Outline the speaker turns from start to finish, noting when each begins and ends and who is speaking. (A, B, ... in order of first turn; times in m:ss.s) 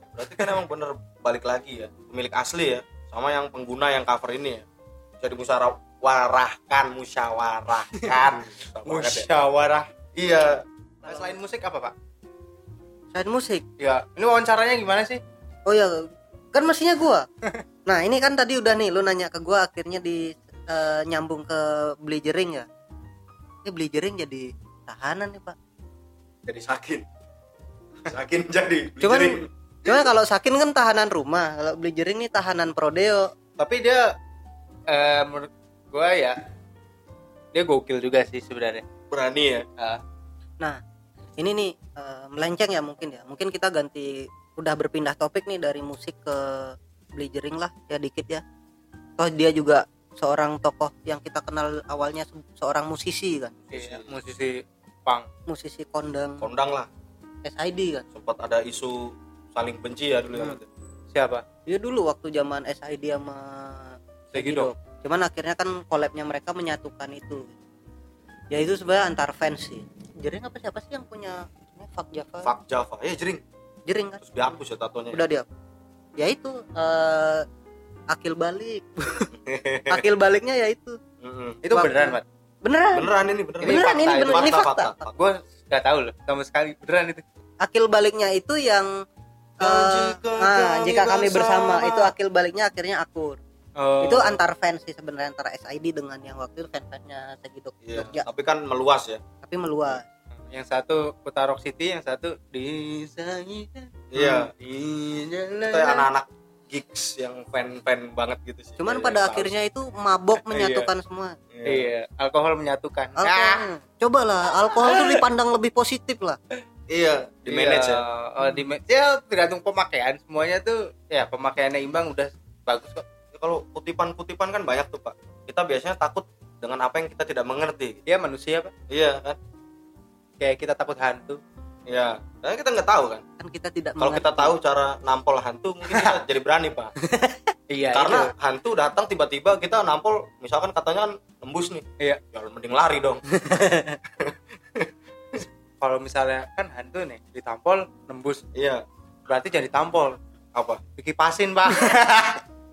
0:00.1-0:04.6 A
0:05.2-0:09.4 A
0:08.0-0:08.3 B
0:08.8-0:09.9 B
0:10.1-0:10.6 A
0:11.0-0:11.9 B
0:13.1-0:13.6 C
0:13.8-0:15.2 B
0:15.6-0:16.0 C
0:16.5-0:17.3 C
0:17.8-0:22.6 C
0:23.6-0:25.6 C
0:26.4-0:27.0 A
0:28.0-0:30.0 A
0:29.0-0:33.3 C
0:33.6-0:34.1 B
0:34.9-0:36.4 B
0:37.5-0:38.8 B
0:39.1-0:39.6 A
0:41.4-0:48.4 C
0:49.2-0:53.5 C
0:53.6-0:54.1 A
0:53.7-0:55.2 B
0:55.5-0:56.5 C
0:56.4-0:56.9 A
0:57.4-0:58.0 C
0:58.1-1:00.6 A
1:01.1-1:01.4 B
1:01.6-1:07.6 C
1:04.3-1:04.7 B
1:08.5-1:12.5 C
1:12.4-1:13.4 A
1:13.9-1:14.3 C
1:14.2-1:15.2 A
1:15.1-1:15.4 C
1:16.2-1:17.4 C
1:18.1-1:19.3 C
1:19.4-1:20.0 A
1:19.9-1:21.0 C
1:21.2-1:21.6 A
1:21.6-1:22.2 B
1:21.7-1:23.1 C
1:22.9-1:25.2 A
1:23.6-1:24.9 C
1:23.6-1:24.6 B
1:25.1-1:27.2 B
1:27.6-1:28.9 C
1:29.6-1:32.1 A
1:29.6-1:33.4 C
1:33.8-1:34.4 B
1:34.0-1:38.2 C
1:37.8-1:39.2 A
1:39.4-1:40.0 C
1:40.5-1:46.1 B
1:44.1-1:44.5 A
1:45.7-1:49.5 A
1:48.8-1:51.4 C
1:50.4-1:50.9 B
1:51.5-1:51.9 A
1:51.6-1:53.6 B
1:53.2-1:56.4 C
1:54.9-1:55.2 B
1:56.9-1:58.0 A
1:57.5-2:03.0 B
2:03.3-2:08.0 A
2:08.1-2:08.7 B
2:08.9-2:09.4 A
2:10.4-2:11.4 B
2:11.9-2:13.2 A
2:13.4-2:14.5 C
2:14.0-2:16.9 A
2:17.1-2:17.4 C
2:17.7-2:18.3 B
2:17.9-2:23.2 A
2:23.5-2:23.9 C
2:24.2-2:24.9 A
2:25.8-2:28.4 B
2:28.5-2:28.8 A
2:29.3-2:30.2 B
2:30.5-2:30.8 A
2:31.0-2:32.4 B